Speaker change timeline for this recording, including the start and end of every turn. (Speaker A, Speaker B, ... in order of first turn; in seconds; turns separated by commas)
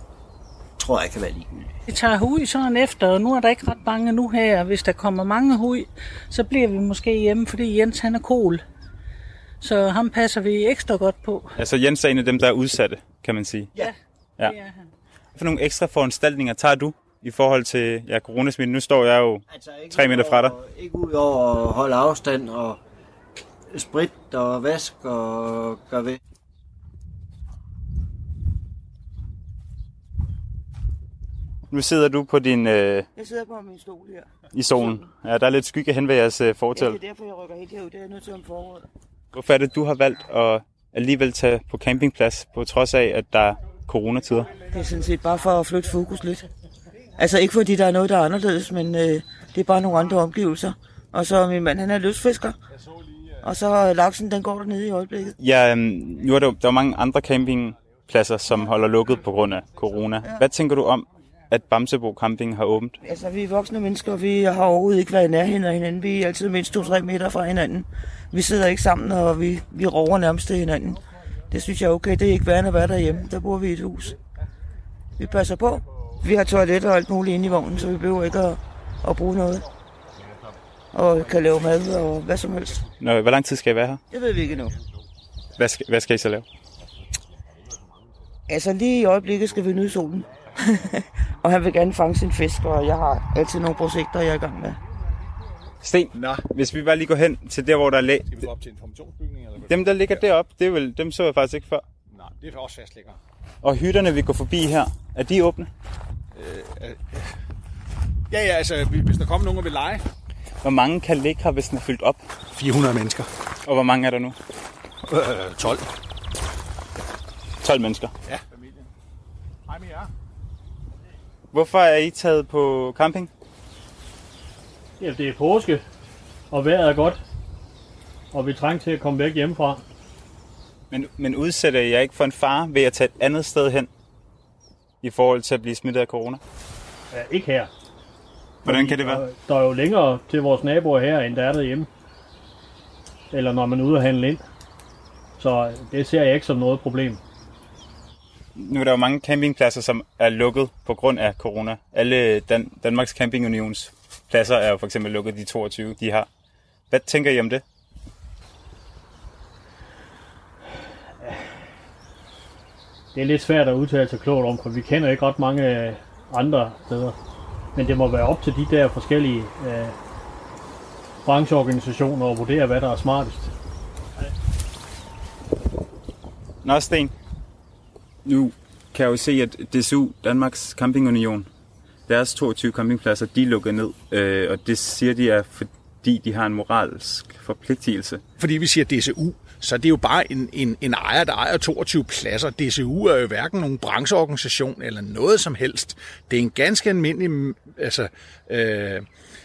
Speaker A: 0.8-1.8, Speaker B: 1.9-8.6, Speaker B: 9.6-11.5, Speaker C: 11.6-13.7, Speaker B: 14.5-14.8, Speaker C: 15.3-20.5, Speaker A: 19.5-22.8, Speaker A: 23.7-26.2, Speaker C: 31.7-33.1, Speaker D: 33.1-34.9, Speaker C: 34.5-37.0, Speaker D: 36.8-38.9, Speaker C: 39.3-44.6, Speaker D: 44.6-46.5, Speaker D: 47.2-52.6, Speaker D: 53.4-55.3, Speaker C: 55.4-63.0, Speaker D: 63.0-74.2, Speaker D: 75.2-79.6, Speaker D: 80.9-82.8, Speaker C: 83.0-84.0, Speaker D: 84.1-84.7, Speaker C: 85.6-86.4, Speaker D: 88.5-94.8, Speaker C: 95.8-98.5, Speaker E: 96.1-96.4, Speaker E: 98.3-100.2, Speaker C: 99.7-101.8, Speaker E: 102.1-103.2, Speaker C: 103.6-105.7, Speaker E: 106.3-107.3, Speaker E: 108.3-110.0, Speaker C: 110.6-112.2, Speaker E: 112.5-113.3, Speaker C: 113.6-114.3, Speaker E: 115.1-115.8, Speaker C: 117.6-118.1, Speaker E: 118.3-118.9, Speaker E: 119.7-120.1, Speaker C: 121.5-123.3, Speaker F: 125.0-125.8, Speaker F: 126.5-127.2, Speaker F: 128.3-129.8, Speaker C: 130.9-133.9, Speaker C: 135.0-136.4, Speaker F: 137.1-137.7, Speaker C: 138.6-139.2, Speaker F: 138.6-141.9, Speaker F: 143.3-144.4, Speaker F: 145.4-147.2, Speaker C: 148.6-156.3, Speaker C: 156.9-157.6, Speaker F: 163.1-167.2, Speaker F: 167.7-169.9, Speaker F: 171.2-173.5, Speaker C: 176.6-177.1, Speaker C: 178.2-181.5, Speaker C: 182.1-188.2, Speaker E: 188.4-199.1